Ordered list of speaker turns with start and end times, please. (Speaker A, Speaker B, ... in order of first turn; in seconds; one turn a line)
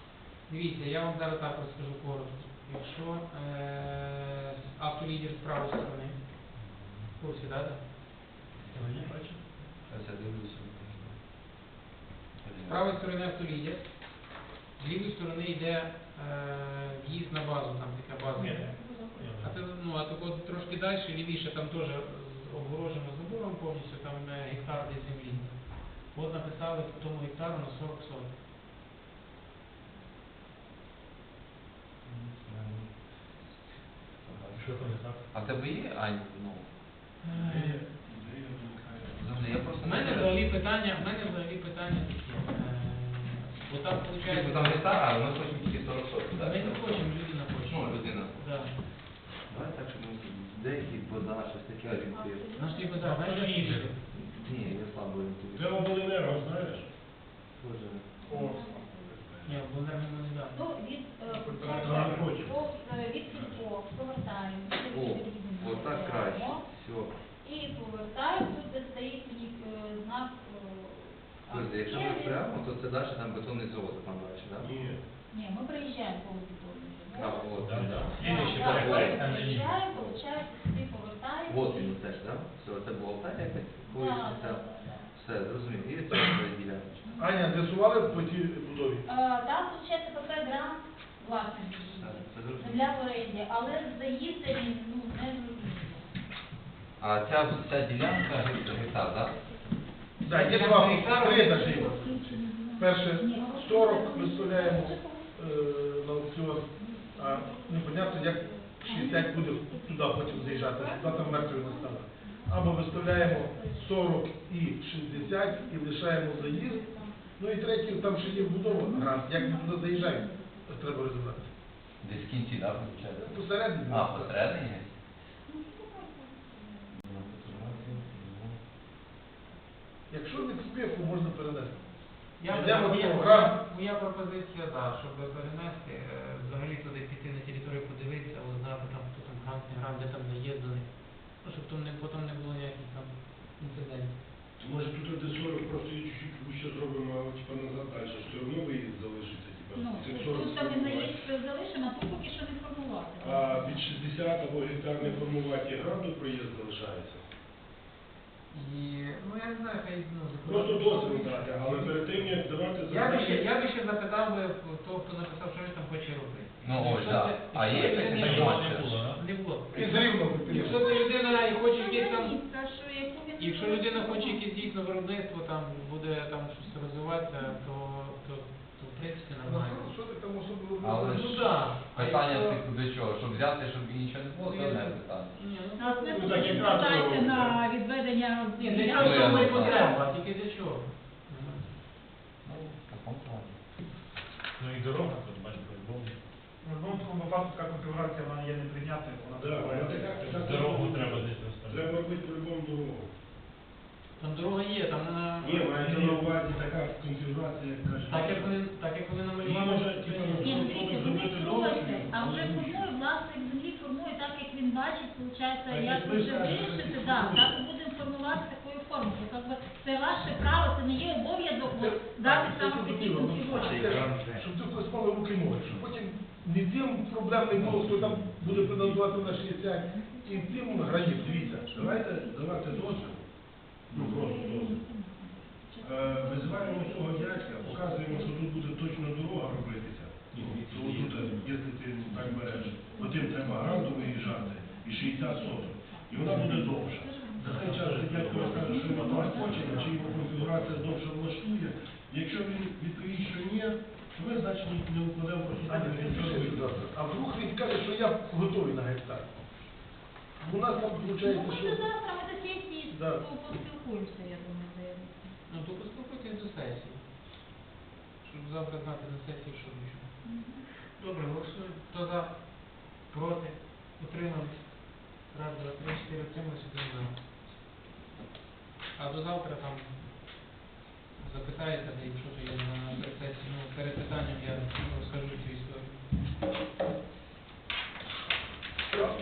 Speaker A: 0.5-6.3
Speaker A: 7.2-7.9
Speaker B: 8.7-9.1
Speaker C: 8.9-9.4
Speaker D: 9.8-11.2
Speaker D: 12.4-13.1
Speaker A: 12.6-14.0
Speaker A: 14.8-18.8
Speaker B: 18.4-19.6
Speaker E: 18.4-19.2
Speaker A: 19.4-28.3
Speaker D: 32.0-33.4
Speaker D: 34.2-36.7
Speaker B: 34.5-35.2
Speaker A: 37.2-37.8
Speaker C: 37.3-39.3
Speaker D: 39.1-40.5
Speaker A: 39.8-44.9
Speaker D: 44.2-48.6
Speaker A: 46.3-48.7
Speaker D: 49.5-52.5
Speaker E: 51.9-53.5
Speaker A: 52.5-54.0
Speaker B: 53.0-54.0
Speaker D: 54.0-55.9
Speaker C: 55.5-56.9
Speaker D: 57.5-58.1
Speaker E: 58.2-59.1
Speaker F: 58.3-58.8
Speaker A: 59.4-60.6
Speaker E: 60.5-66.7
Speaker F: 61.6-62.2
Speaker C: 61.7-62.6
Speaker D: 64.9-67.1
Speaker E: 67.4-72.5
Speaker D: 71.5-74.8
Speaker C: 74.6-75.0
Speaker E: 75.3-77.6
Speaker D: 77.2-78.2
Speaker B: 77.5-79.8
Speaker C: 77.7-78.8
Speaker E: 78.1-82.2
Speaker D: 81.5-87.1
Speaker E: 83.8-85.1
Speaker G: 87.2-89.0
Speaker E: 89.0-96.1
Speaker D: 91.9-92.9
Speaker D: 97.0-99.4
Speaker A: 100.2-102.0
Speaker G: 100.2-121.5
Speaker E: 101.5-105.3
Speaker E: 106.8-114.2
Speaker E: 115.0-120.9
Speaker D: 122.0-124.9
Speaker G: 123.2-124.4
Speaker E: 125.5-128.1
Speaker D: 126.9-128.6
Speaker G: 130.1-131.8
Speaker A: 132.4-144.2
Speaker G: 132.4-133.6
Speaker C: 144.6-151.2
Speaker E: 149.7-153.9
Speaker C: 153.2-157.2
Speaker A: 158.5-172.4
Speaker C: 160.4-163.4
Speaker D: 166.6-169.0
Speaker B: 168.0-169.2
Speaker G: 169.7-170.9
Speaker E: 170.2-174.7
Speaker A: 173.4-179.9
Speaker G: 179.4-181.5
Speaker D: 180.8-181.4
Speaker A: 181.1-182.6
Speaker D: 181.9-185.4
Speaker A: 184.4-186.4
Speaker E: 185.8-190.0
Speaker C: 186.1-187.6
Speaker A: 188.6-191.6
Speaker D: 189.0-189.9
Speaker D: 192.4-193.6
Speaker B: 194.6-196.2
Speaker F: 196.6-200.0
Speaker C: 199.4-203.1
Speaker B: 200.1-201.9
Speaker A: 204.2-206.3
Speaker C: 205.4-208.6
Speaker A: 208.1-210.9
Speaker C: 209.4-212.9
Speaker E: 210.4-224.1
Speaker C: 215.7-217.6
Speaker G: 221.7-232.1
Speaker D: 223.7-224.4
Speaker D: 227.5-228.4
Speaker C: 228.5-229.1
Speaker E: 229.3-233.1
Speaker C: 231.8-233.2
Speaker C: 233.9-234.8
Speaker E: 234.0-239.1
Speaker C: 235.8-256.8
Speaker B: 240.3-241.5
Speaker E: 241.1-241.4
Speaker E: 242.1-249.9
Speaker B: 242.1-242.4
Speaker B: 246.2-246.7
Speaker B: 247.4-251.1
Speaker G: 255.6-259.3
Speaker G: 260.4-261.8
Speaker E: 261.2-265.3
Speaker G: 262.9-263.2
Speaker A: 265.5-267.0
Speaker A: 268.2-270.1
Speaker E: 270.2-270.6
Speaker A: 270.9-277.2
Speaker A: 278.9-280.1
Speaker A: 281.2-286.1